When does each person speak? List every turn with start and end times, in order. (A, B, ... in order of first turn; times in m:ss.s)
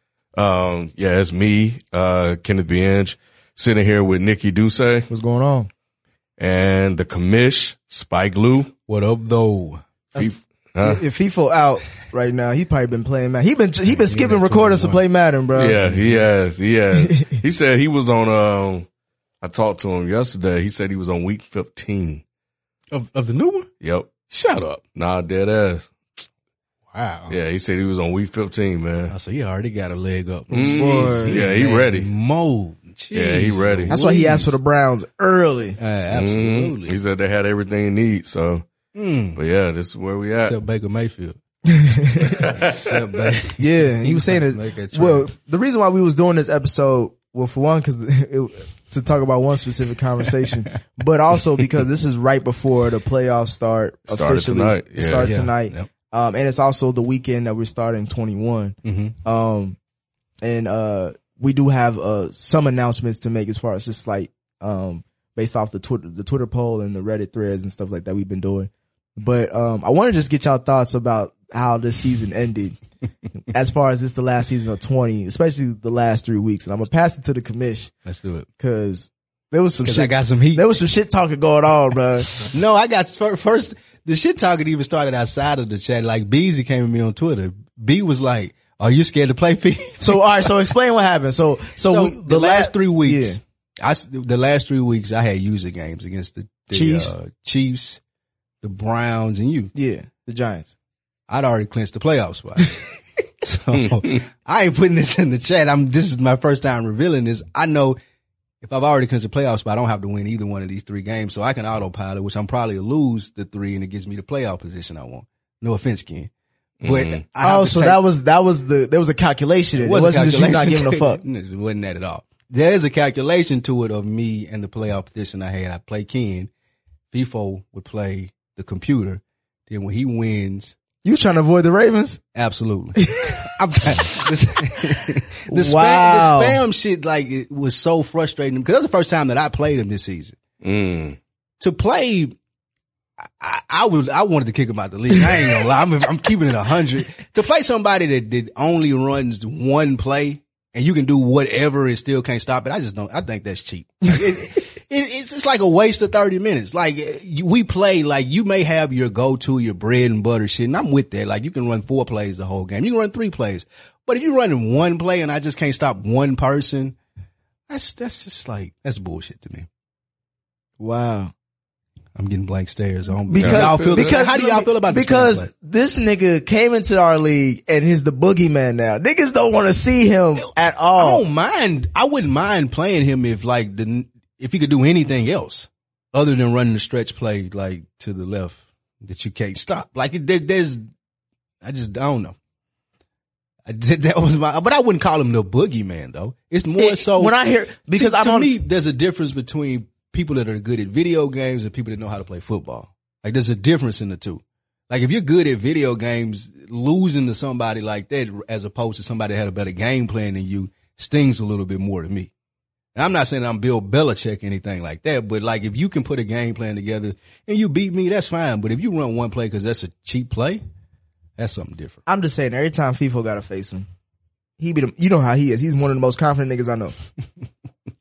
0:00.4-0:05.1 A
0:05.1-0:05.7 B
0:06.4-0:08.7 A
0:08.9-0:09.8 C
0:10.2-0:11.0 A
0:10.8-0:15.9 B
0:13.9-0:15.0 C
0:15.6-0:18.9 A
0:15.8-0:16.3 C
0:17.0-0:17.3 B
0:19.4-0:22.2 A
0:22.9-0:23.7 C
0:23.8-0:24.1 A
0:24.3-0:24.8 C
0:25.0-0:25.9 A
0:26.9-0:27.4 C
0:27.3-0:29.1 A
0:29.1-0:34.6 C
0:30.5-0:32.1 A
0:30.6-0:31.4 B
0:33.1-0:34.0 A
0:33.9-0:35.8 B
0:35.8-0:37.0 C
0:36.1-0:38.6 A
0:39.0-0:39.4 C
0:39.4-0:40.6 A
0:40.4-0:41.4 C
0:41.7-0:42.5 B
0:42.2-0:45.3 C
0:42.4-0:43.4 A
0:43.6-0:59.8 B
0:54.1-0:55.3 A
0:55.2-0:55.9 C
0:58.8-0:59.2 C
1:00.4-1:12.8 B
1:13.5-1:17.9 B
1:18.1-1:18.5 C
1:18.6-1:22.4 B
1:19.8-1:20.7 C
1:22.3-1:30.5 C
1:30.0-1:33.4 B
1:31.8-1:38.0 C
1:36.7-1:37.2 B
1:38.6-1:39.7 C
1:39.8-1:40.7 B
1:41.3-1:48.0 C
1:48.6-1:56.3 C
1:56.8-1:57.2 A
1:56.8-1:58.0 C
1:57.4-2:01.2 B
1:59.8-2:06.5 C
2:07.1-2:10.8 C
2:11.0-2:12.2 B
2:12.4-2:20.4 C
2:13.0-2:13.5 B
2:14.8-2:16.6 B
2:20.6-2:21.2 A
2:21.6-2:22.4 C
2:23.2-2:47.0 C
2:47.7-2:49.7 C
2:50.8-2:51.3 B
2:52.2-2:55.5 C
2:53.3-3:01.2 B
2:53.4-2:54.2 A
3:00.4-3:10.8 C
3:11.6-3:12.4 C
3:13.7-3:17.4 C
3:16.8-3:18.5 B
3:17.9-3:32.3 C
3:33.0-3:40.6 C
3:41.4-3:42.0 C
3:42.1-3:43.9 B
3:44.6-3:47.0 B